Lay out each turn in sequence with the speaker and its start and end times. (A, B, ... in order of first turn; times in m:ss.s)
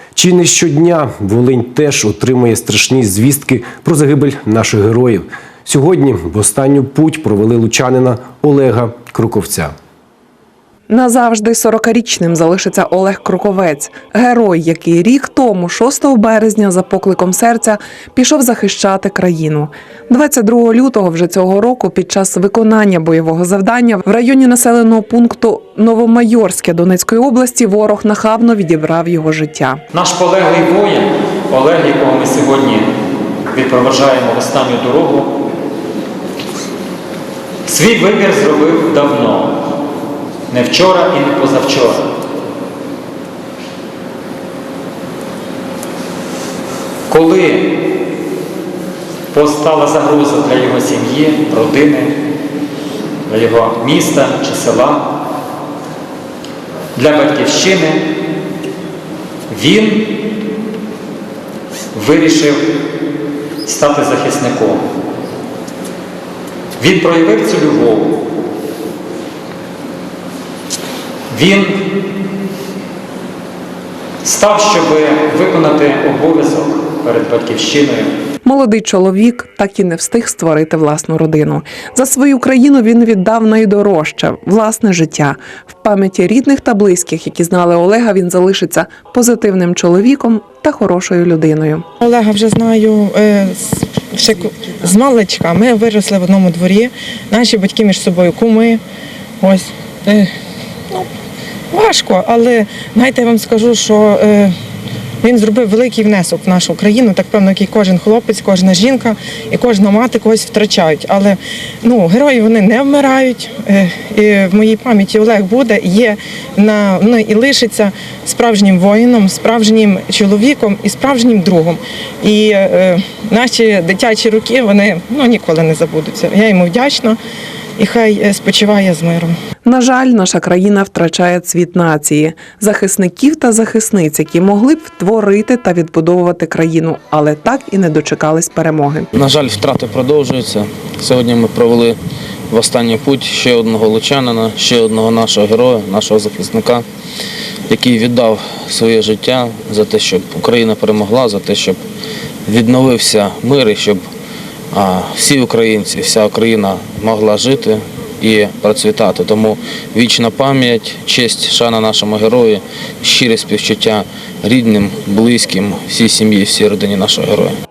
0:00.2-0:09.7 A
0:10.9-0:29.8 B
0:29.9-0:32.9 C
0:33.5-0:35.4 C
0:37.7-0:39.6 C
0:40.5-0:42.1 C
0:47.1-0:47.8 C
0:49.3-0:52.2 C
0:53.3-0:55.1 C
0:57.0-0:58.0 C
0:59.5-1:00.2 C
1:01.9-1:02.6 C
1:03.6-1:04.8 C
1:06.8-1:08.2 C
1:11.3-1:11.8 C
1:14.2-1:18.1 C
1:18.4-1:31.9 B
1:32.0-1:38.8 D
1:39.4-1:40.3 D
1:41.7-1:44.5 D
1:45.2-2:07.2 D
2:07.8-2:09.3 D
2:09.6-2:19.1 B
2:19.2-2:22.0 E
2:22.5-2:26.8 E
2:27.7-2:31.8 E
2:32.5-2:34.0 E
2:34.7-2:47.6 E